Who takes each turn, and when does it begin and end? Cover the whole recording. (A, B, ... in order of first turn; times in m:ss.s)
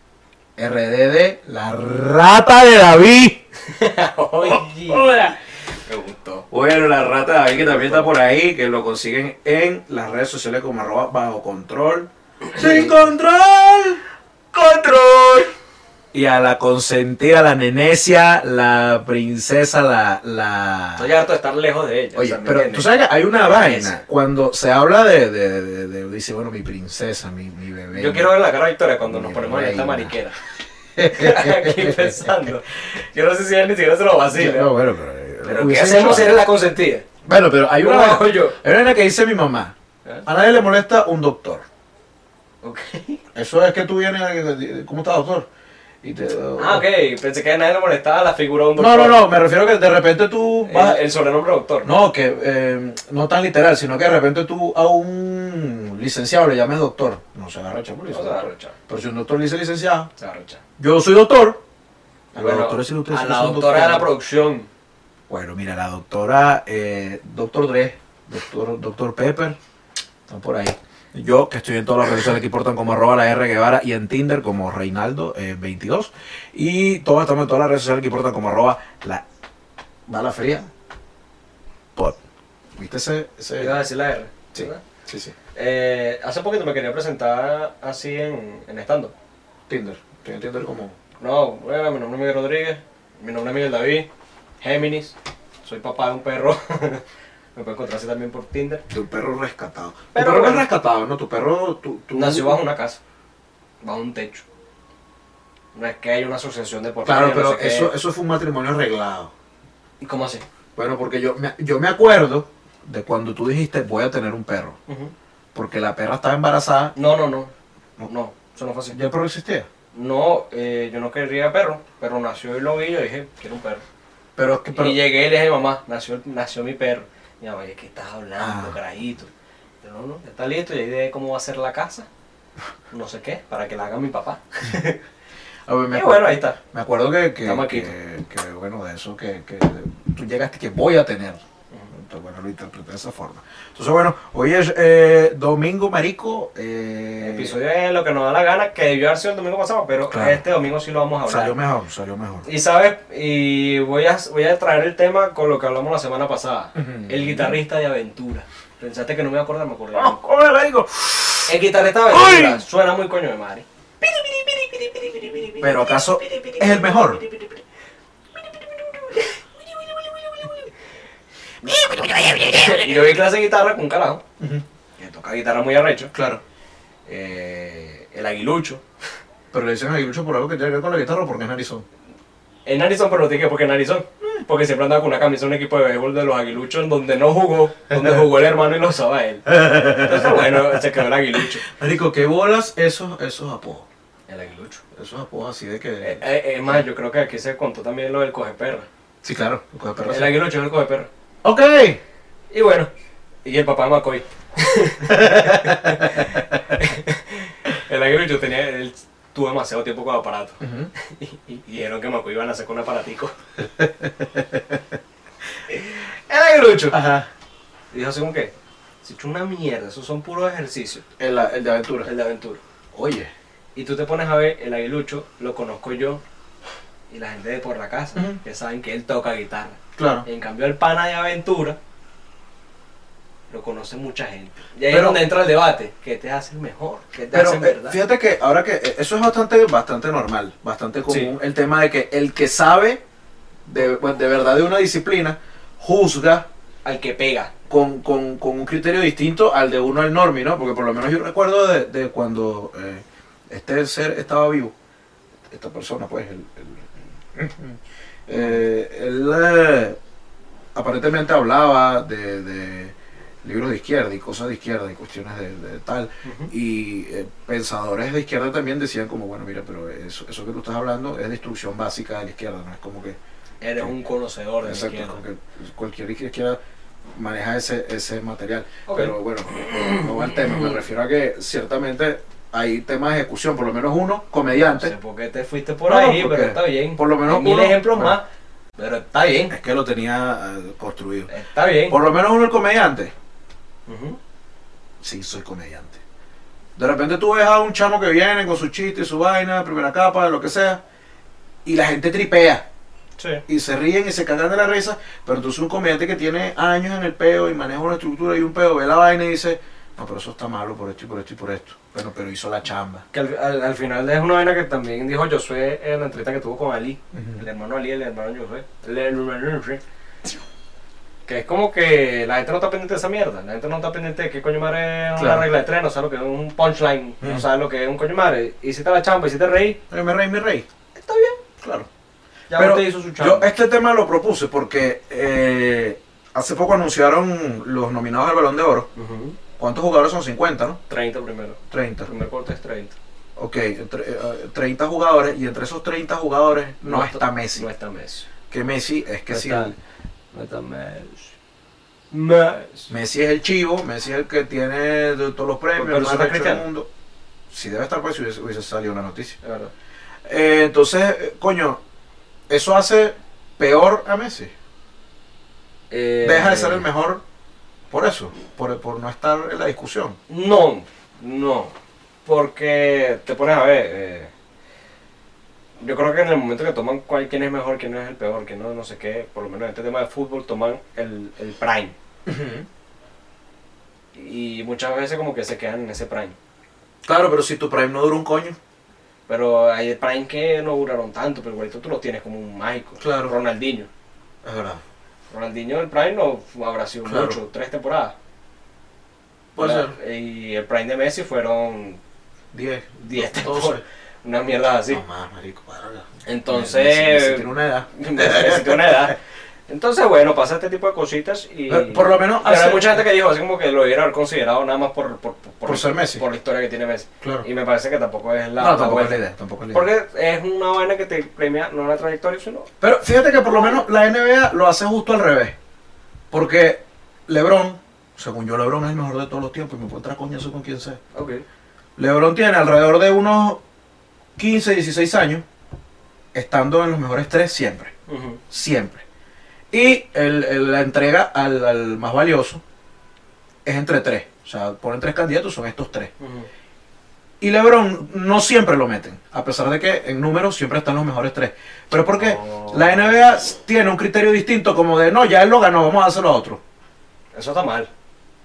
0:00.6-0:03.4 A
0:03.6-0:06.5 B
0:04.4-0:05.4 A
0:06.5-0:14.0 A
0:07.5-0:08.2 B
0:12.5-0:13.0 B
0:14.5-0:15.5 B
0:16.1-0:21.1 A
0:21.0-0:24.0 B
0:22.1-0:28.4 A
0:27.9-0:30.4 B
0:29.0-0:30.2 A
0:31.0-0:32.5 A
0:31.1-0:34.7 B
0:34.3-0:36.4 A
0:35.4-0:37.0 B
0:37.2-0:39.7 A
0:37.8-0:38.6 B
0:40.2-0:41.6 A
0:42.6-0:43.2 B
0:43.3-0:45.5 A
0:46.0-0:46.9 A
0:46.6-0:49.3 B
0:48.8-0:51.0 A
0:50.6-0:52.0 B
0:51.8-1:00.1 A
0:58.1-0:58.8 B
1:00.2-1:00.6 B
1:00.8-1:01.6 A
1:02.3-1:04.1 A
1:02.3-1:04.7 B
1:05.3-1:09.6 A
1:10.3-1:19.2 A
1:20.1-1:20.7 A
1:22.8-1:23.8 A
1:23.6-1:24.8 B
1:24.5-1:25.3 A
1:25.5-1:29.1 B
1:29.7-1:31.0 A
1:31.2-1:34.1 B
1:34.6-1:37.0 B
1:37.5-1:38.8 B
1:38.9-1:42.6 A
1:40.1-1:40.7 B
1:42.1-1:43.0 B
1:43.8-1:44.4 B
1:45.7-1:47.9 B
1:47.0-1:49.3 A
1:50.0-1:50.4 B
1:50.7-1:54.8 A
1:54.9-1:55.1 B
1:55.5-1:56.9 A
1:57.0-1:57.5 B
1:58.0-1:59.0 B
1:58.9-1:59.7 A
1:59.9-2:03.8 B
2:04.4-2:05.0 A
2:04.7-2:09.3 B
2:08.4-2:08.8 A
2:09.8-2:12.1 B
2:12.9-2:15.0 B
2:15.7-2:21.4 A
2:15.9-2:16.6 B
2:17.4-2:17.9 B
2:21.9-2:27.6 A
2:27.2-2:31.6 B
2:30.1-2:30.4 A
2:31.2-2:32.5 A
2:32.4-2:40.2 B
2:36.7-2:37.6 A
2:39.9-2:41.6 A
2:41.5-2:47.6 B
2:42.1-2:42.6 A
2:45.6-2:47.2 A
2:48.7-2:50.7 B
2:51.6-2:53.1 A
2:51.6-2:54.2 B
2:55.0-2:56.1 B
2:56.1-2:56.4 A
2:57.1-2:58.8 B
2:59.5-3:01.8 A
3:02.6-3:11.7 B
3:09.5-3:10.8 A
3:11.4-3:13.8 A
3:14.3-3:14.8 B
3:15.0-3:16.2 A
3:16.0-3:18.9 B
3:19.2-3:20.4 A
3:20.0-3:21.1 B
3:21.4-3:22.0 A
3:22.5-3:22.9 B
3:23.4-3:33.4 B
3:25.0-3:26.4 A
3:30.6-3:30.9 A
3:33.6-3:34.8 A
3:35.7-3:37.1 B
3:36.9-3:37.3 A
3:37.9-3:41.0 B
3:41.2-3:42.1 A
3:42.0-3:42.6 B
3:42.9-3:43.3 A
3:43.7-3:46.2 B
3:47.1-3:51.8 B
3:48.1-3:48.4 A
3:50.0-3:50.2 A
3:53.5-3:58.0 B
3:54.9-3:55.2 A
3:57.3-4:03.0 A
4:01.1-4:01.3 B
4:03.6-4:06.5 A
4:06.8-4:07.5 B
4:07.7-4:14.7 A
4:15.5-4:20.0 A
4:18.3-4:18.6 B
4:20.7-4:33.2 A
4:26.2-4:26.5 B
4:33.6-4:35.2 B
4:34.6-4:36.6 A
4:37.1-4:44.9 A
4:38.9-4:40.8 B
4:44.5-4:48.2 B
4:45.8-4:48.2 A
4:48.8-4:49.5 B
4:49.5-4:51.3 A
4:51.3-4:52.0 B
4:51.9-4:53.1 A
4:53.9-4:54.2 B
4:55.0-4:56.0 A
4:56.8-5:00.8 A
5:01.6-5:02.6 A
5:03.2-5:03.4 B
5:03.5-5:13.0 A
5:13.1-5:19.8 B
5:17.1-5:17.4 A
5:21.2-5:29.8 B
5:25.2-5:25.5 A
5:27.2-5:27.5 A
5:29.9-5:30.6 A
5:30.9-5:31.4 B
5:31.6-5:31.9 A
5:32.5-5:33.5 B
5:32.5-5:38.9 A
5:38.9-5:39.4 B
5:39.6-5:40.8 A
5:40.9-5:42.9 B
5:41.7-5:42.1 A
5:43.4-5:47.7 A
5:46.8-5:48.3 B
5:48.5-5:49.7 A
5:49.3-5:49.7 B
5:50.3-5:51.3 B
5:52.1-5:52.9 B
5:52.9-5:56.9 A
5:55.7-5:56.6 B
5:57.5-5:59.4 A
5:59.4-5:59.7 B
6:00.2-6:01.8 A
6:02.5-6:04.5 A
6:05.9-6:06.9 B
6:06.2-6:07.2 A
6:07.9-6:10.2 A
6:10.3-6:11.7 B
6:12.2-6:14.3 B
6:15.8-6:21.9 B
6:22.2-6:22.6 A
6:24.1-6:26.4 B
6:27.0-6:28.6 A
6:29.3-6:33.9 B
6:33.0-6:33.3 A
6:34.4-6:34.8 A
6:35.3-6:38.1 B
6:37.0-6:37.4 A
6:39.5-6:39.9 A
6:39.6-6:42.0 B
6:42.5-6:43.8 A
6:43.0-6:45.0 B
6:44.9-6:49.1 A
6:46.2-6:49.2 B
6:49.7-7:02.7 B
6:51.7-6:53.0 A
6:55.6-6:56.2 A
6:58.6-6:59.9 A
7:02.8-7:05.6 A
7:03.4-7:03.8 B
7:06.3-7:11.0 A
7:11.1-7:11.4 B
7:12.0-7:13.6 A
7:14.4-7:15.4 A
7:16.3-7:17.9 A
7:18.1-7:18.4 B
7:18.5-7:19.0 A
7:19.7-7:22.6 A
7:23.6-7:26.1 A
7:26.2-7:26.5 B
7:27.4-7:36.6 A
7:32.0-7:33.4 B
7:37.3-7:37.9 B